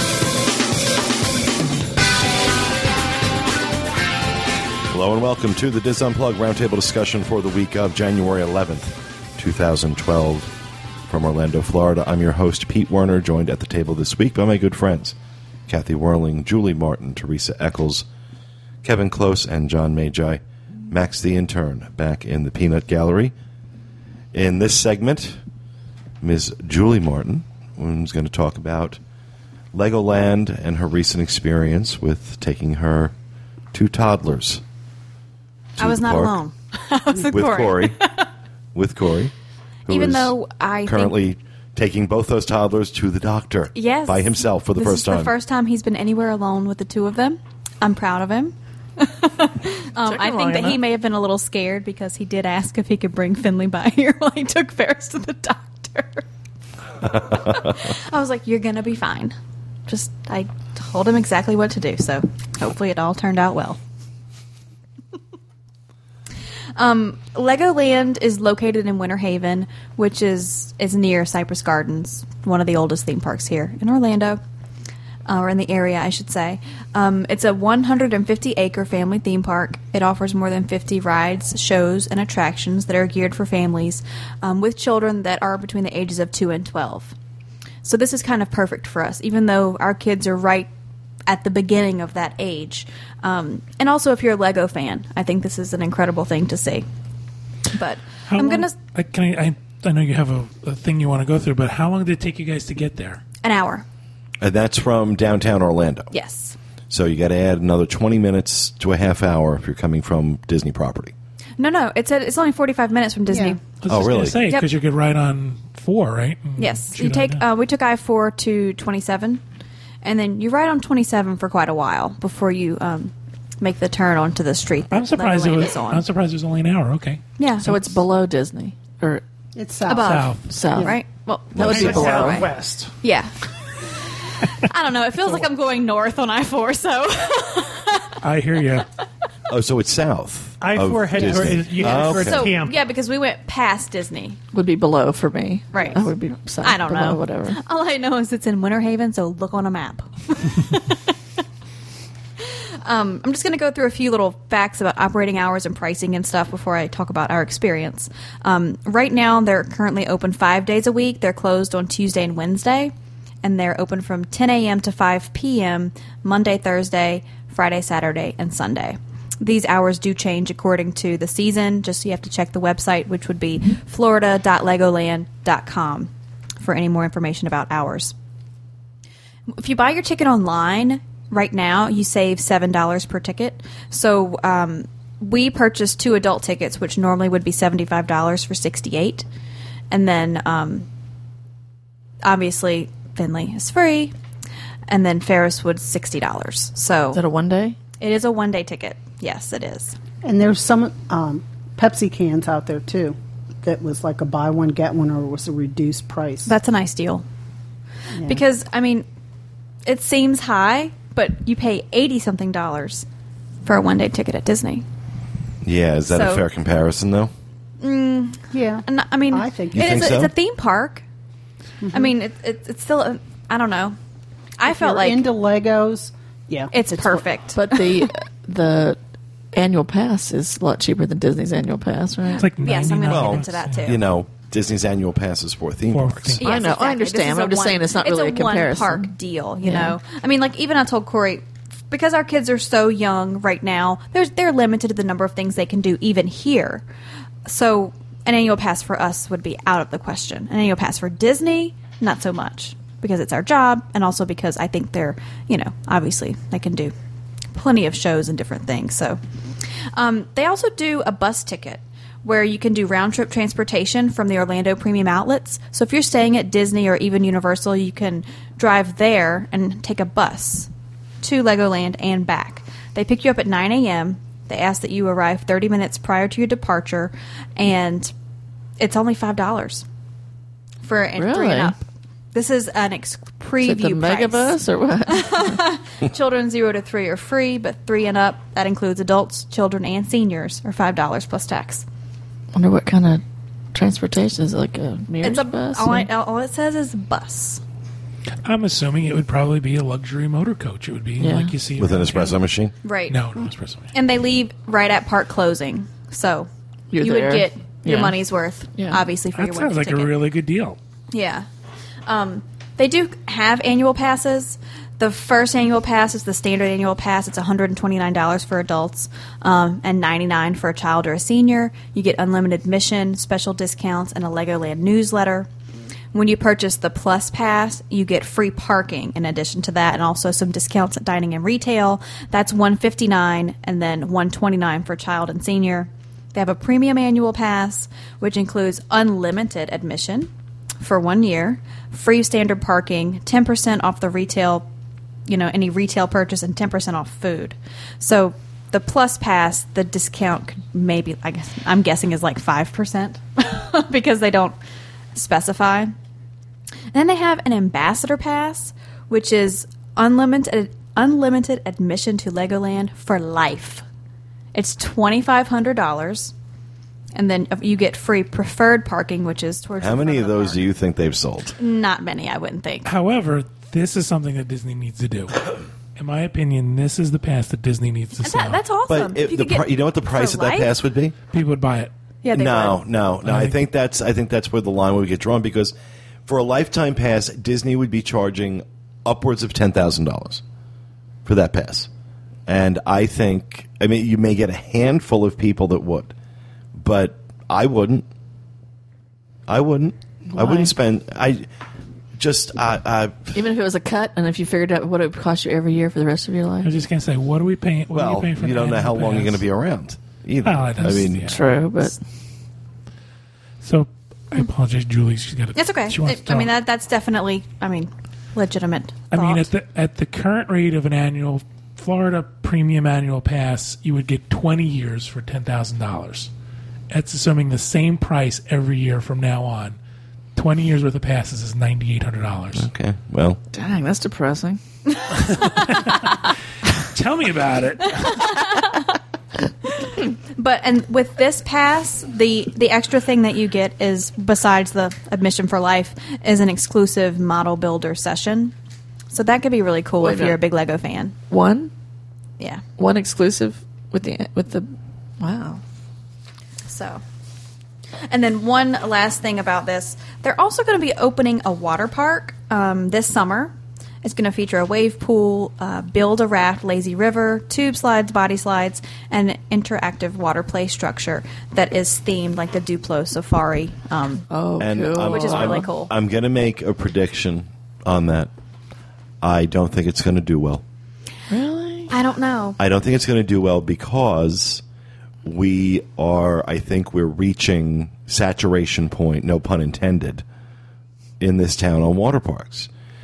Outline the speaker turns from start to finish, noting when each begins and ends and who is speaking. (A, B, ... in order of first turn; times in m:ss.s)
0:04.9-0:10.5 A
0:11.1-0:15.2 A
0:15.7-0:18.1 A
0:18.8-0:23.3 A
0:24.3-0:25.4 A
0:26.2-0:29.0 A
0:29.7-0:33.1 A
0:33.7-0:34.6 A
0:35.8-0:38.3 B
0:35.8-0:36.4 A
0:37.3-0:38.0 A
0:38.8-0:39.3 A
0:39.9-0:40.3 A
0:39.9-0:41.2 B
0:40.8-0:45.3 A
0:43.7-0:56.2 B
0:50.1-0:50.8 C
0:57.0-0:57.8 A
0:57.2-0:59.4 B
0:59.9-1:03.8 B
1:06.8-1:14.4 B
1:15.3-1:27.2 B
1:27.8-1:30.7 B
1:31.3-1:36.9 B
1:37.7-1:38.8 B
1:38.3-1:43.2 D
1:43.4-1:43.8 B
1:44.4-1:46.1 A
1:46.1-1:46.6 B
1:46.9-1:51.1 A
1:51.6-1:53.6 B
1:53.3-1:53.6 E
1:53.8-1:57.4 D
1:53.9-1:54.4 A
1:56.6-1:59.4 B
2:00.0-2:06.0 B
2:04.9-2:08.0 D
2:07.4-2:07.7 B
2:07.6-2:09.2 F
2:09.6-2:11.0 E
2:09.9-2:12.5 B
2:10.0-2:10.5 D
2:10.5-2:11.0 F
2:11.5-2:12.0 A
2:11.5-2:12.5 F
2:11.6-2:13.0 C
2:13.0-2:18.2 B
2:18.2-2:18.9 D
2:19.5-2:22.5 A
2:20.6-2:22.8 C
2:21.8-2:24.4 B
2:24.5-2:27.6 F
2:25.7-2:26.0 B
2:26.6-2:31.2 B
2:32.4-2:58.2 B
2:59.5-3:09.3 B
3:09.9-3:10.9 B
3:12.2-3:14.1 B
3:14.9-3:17.2 B
3:17.1-3:17.8 F
3:18.0-3:20.0 B
3:20.2-3:26.5 E
3:26.5-3:27.2 B
3:28.2-3:28.4 E
3:28.2-3:29.1 B
3:29.8-3:33.1 B
3:33.6-3:34.8 B
3:35.6-3:37.3 A
3:36.1-3:36.4 B
3:37.8-3:41.0 B
3:38.5-3:40.1 E
3:39.7-3:40.3 A
3:41.8-3:42.1 E
3:41.9-3:44.0 B
3:44.6-3:45.2 B
3:44.7-3:47.2 E
3:46.7-3:48.1 B
3:47.5-3:49.0 F
3:49.5-3:52.5 F
3:52.4-3:54.0 D
3:52.6-3:54.1 B
3:53.1-3:56.4 A
3:55.9-3:56.5 D
3:56.4-4:06.8 B
3:56.4-3:59.1 F
3:59.6-4:00.0 F
4:07.5-4:16.9 B
4:17.5-4:19.2 B
4:20.0-4:30.7 B
4:31.2-4:38.1 B
4:38.8-4:39.8 B
4:40.8-4:44.6 B
4:41.2-4:41.8 F
4:43.6-4:45.6 F
4:45.1-4:51.8 B
4:52.5-4:53.2 F
4:53.7-4:56.1 F
4:55.2-4:57.6 B
4:58.4-5:02.4 D
5:01.2-5:01.5 F
5:01.8-5:02.7 A
5:02.8-5:03.2 B
5:03.1-5:03.9 D
5:03.9-5:10.1 B
5:06.9-5:08.2 F
5:08.7-5:09.0 F
5:09.4-5:10.8 D
5:11.1-5:11.5 B
5:12.1-5:25.5 B
5:26.1-5:40.3 B
5:40.8-5:44.7 B
5:45.3-5:54.6 B
5:55.1-5:56.0 B
5:56.9-6:03.8 B
6:04.6-6:06.3 B
6:07.2-6:10.6 B
6:09.8-6:11.6 A
6:11.6-6:12.9 B
6:12.8-6:18.6 D
6:18.2-6:20.7 B
6:18.9-6:21.2 A
6:21.3-6:21.9 D
6:22.2-6:22.8 B
6:22.3-6:25.7 A
6:23.2-6:23.6 D
6:26.3-6:30.4 A
6:31.2-6:31.9 A
6:32.5-6:36.1 A
6:36.8-6:38.1 A
6:39.5-6:41.5 A
6:40.3-6:40.7 F
6:42.2-6:43.4 A
6:43.4-6:46.7 F
6:46.6-6:49.4 D
6:47.9-6:51.3 A
6:50.4-6:51.4 D
6:50.9-6:52.0 F
6:53.6-6:56.5 D
6:55.6-6:59.4 B
6:59.1-7:06.3 D
7:06.9-7:09.8 D
7:10.4-7:12.7 D
7:12.6-7:13.4 A
7:13.5-7:14.6 F
7:15.2-7:16.2 D
7:16.9-7:18.3 D
7:18.0-7:18.9 B
7:19.6-7:28.5 B
7:29.1-7:31.1 B
7:30.0-7:30.4 F
7:31.3-7:31.7 F
7:32.8-7:35.6 F
7:36.7-7:37.0 B
7:38.1-7:54.3 B
7:54.3-7:55.7 F
7:54.6-7:58.3 A
7:55.0-7:55.9 B
7:59.2-8:00.6 A
8:01.3-8:01.9 F
8:01.9-8:02.6 B
8:02.6-8:04.6 A
8:05.2-8:10.2 A
8:11.2-8:12.7 A